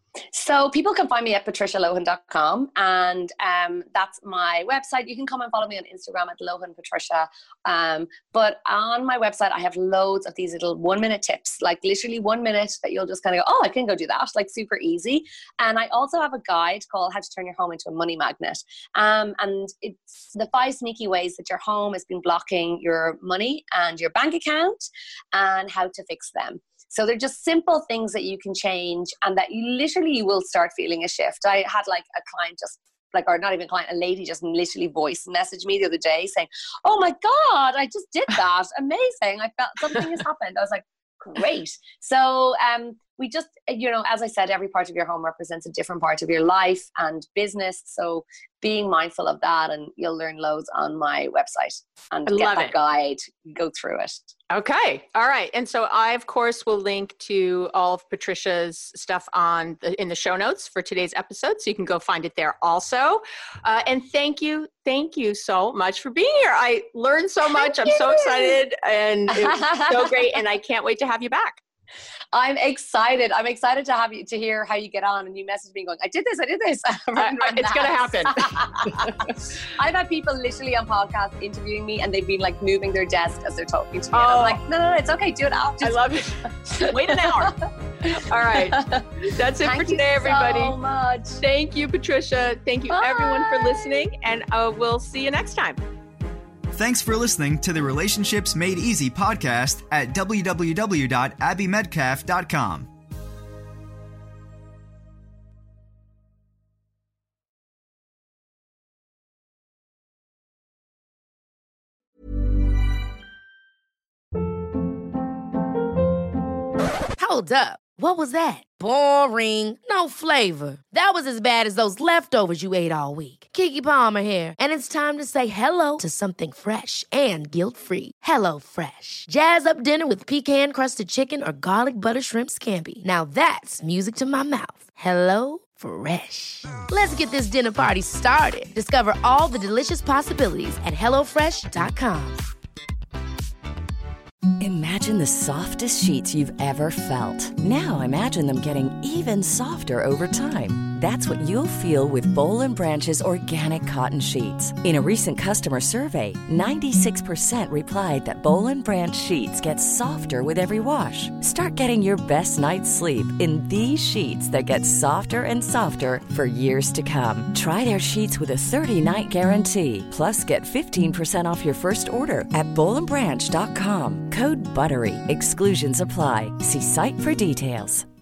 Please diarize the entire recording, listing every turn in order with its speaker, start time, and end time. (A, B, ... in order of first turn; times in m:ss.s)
0:00.3-0:54.3 A
0:52.3-0:52.7 B
0:54.5-1:11.6 B
1:07.5-1:08.6 A
1:09.3-1:10.2 A
1:12.3-1:26.0 A
1:17.2-1:19.1 B
1:24.1-1:24.6 B
1:25.8-1:27.6 B
1:26.8-1:29.1 A
1:28.1-1:30.8 B
1:29.6-1:31.4 A
1:31.4-1:35.8 B
1:32.9-1:33.8 A
1:36.7-1:42.9 C
1:57.2-2:22.4 D
2:24.6-2:58.1 E